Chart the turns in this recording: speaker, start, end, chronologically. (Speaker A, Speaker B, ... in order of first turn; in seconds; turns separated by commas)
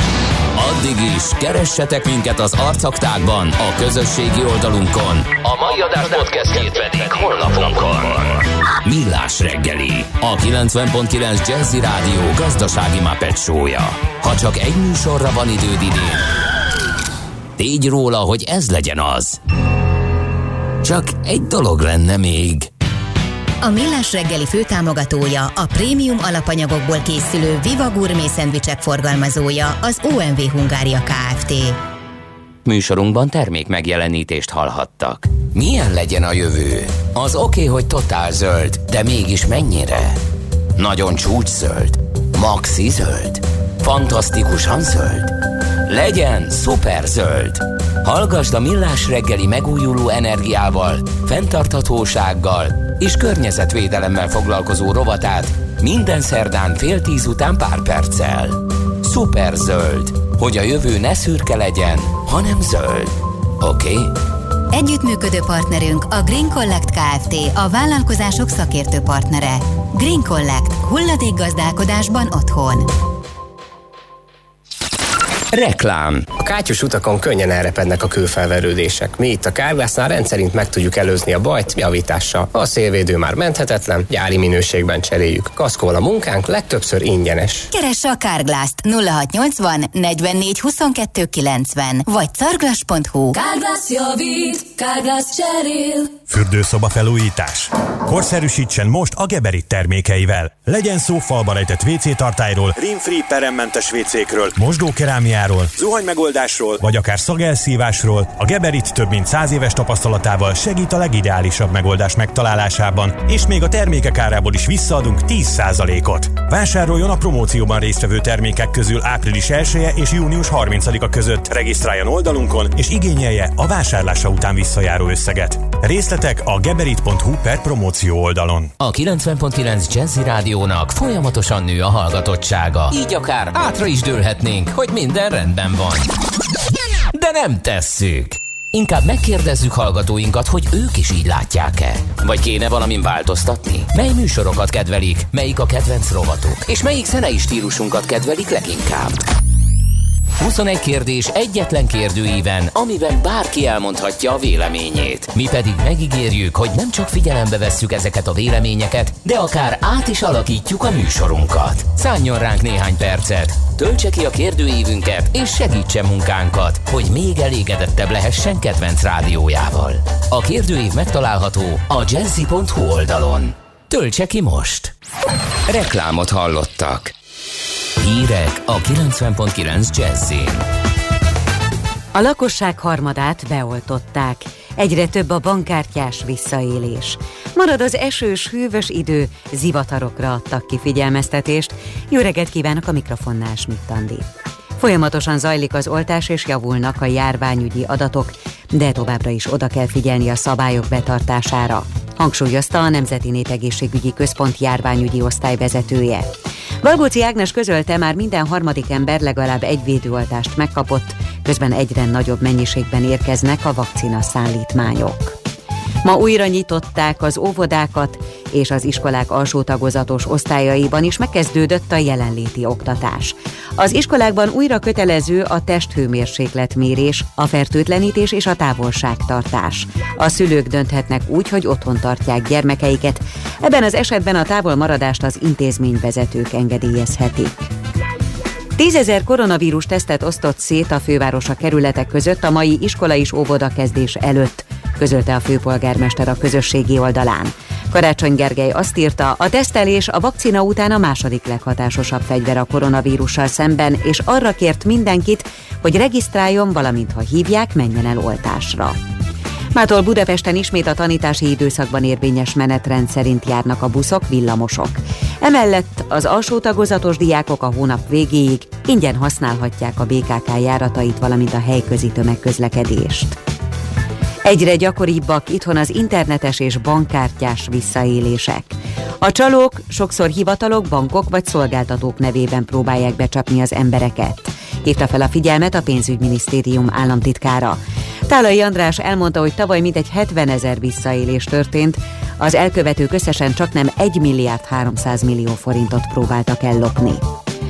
Speaker A: 0.6-16.2, Speaker A: 17.6-19.4, Speaker A: 20.8-22.7, Speaker B: 23.6-31.8, Speaker A: 32.7-40.2, Speaker A: 40.8-45.3, Speaker A: 45.9-64.1, Speaker B: 64.7-72.9, Speaker A: 75.5-76.3, Speaker C: 76.4-87.7, Speaker B: 87.7-93.4, Speaker D: 93.3-96.2, Speaker E: 96.3-128.7, Speaker A: 128.8-136.1, Speaker A: 137.1-149.2, Speaker A: 150.4-174.9, Speaker A: 175.7-177.1, Speaker A: 178.0-180.7, Speaker F: 182.1-194.3, Speaker F: 194.8-206.3, Speaker F: 206.8-215.4, Speaker F: 216.0-237.7, Speaker F: 238.8-259.0, Speaker F: 259.8-273.4, Speaker F: 274.4-297.3